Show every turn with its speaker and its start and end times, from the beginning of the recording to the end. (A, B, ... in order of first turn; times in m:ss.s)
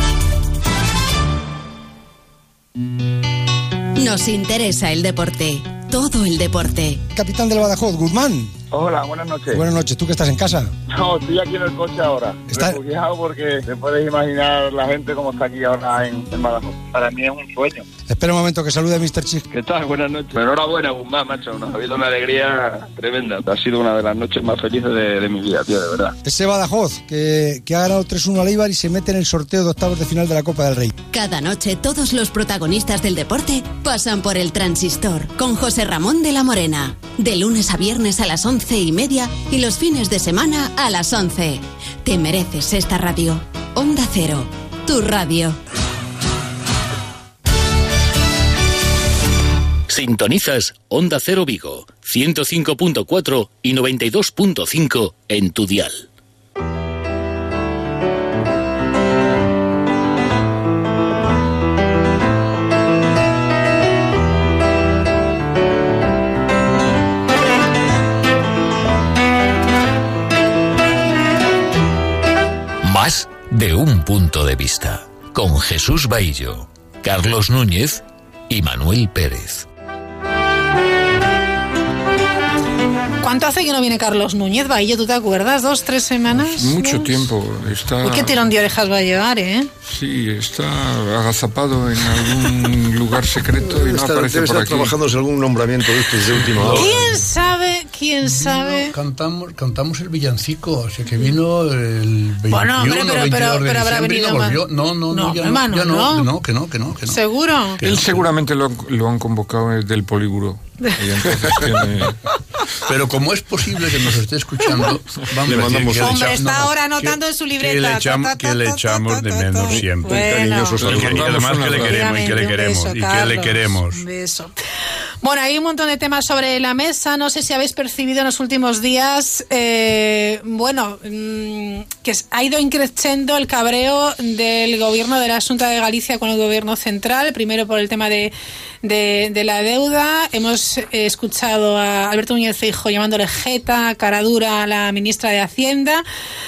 0:04.0-0:07.0 A
0:08.7-0:09.6 B
0:09.6-0:10.6 C
0:10.9-0:17.8 B
0:18.1-0:19.4 C
0:19.5-0:26.1 B
0:26.3-0:30.8 C
0:31.1-0:45.6 A
0:49.9-0:56.0 D
1:12.8-1:19.6 D
1:23.2-1:27.2 E
1:26.3-1:28.4 F
1:28.0-1:29.7 E
1:29.8-1:35.0 F
1:33.6-1:37.1 G
1:36.2-1:37.2 H
1:36.7-1:38.9 E
1:38.2-1:47.2 H
1:42.5-1:46.3 E
1:47.1-1:47.8 E
1:47.8-1:48.3 H
1:47.8-1:52.2 F
1:52.8-2:00.2 H
1:55.5-1:56.2 G
1:56.0-2:00.8 E
2:00.0-2:01.3 G
2:00.8-2:02.4 F
2:00.8-2:04.0 H
2:01.8-2:04.5 E
2:05.2-2:26.0 E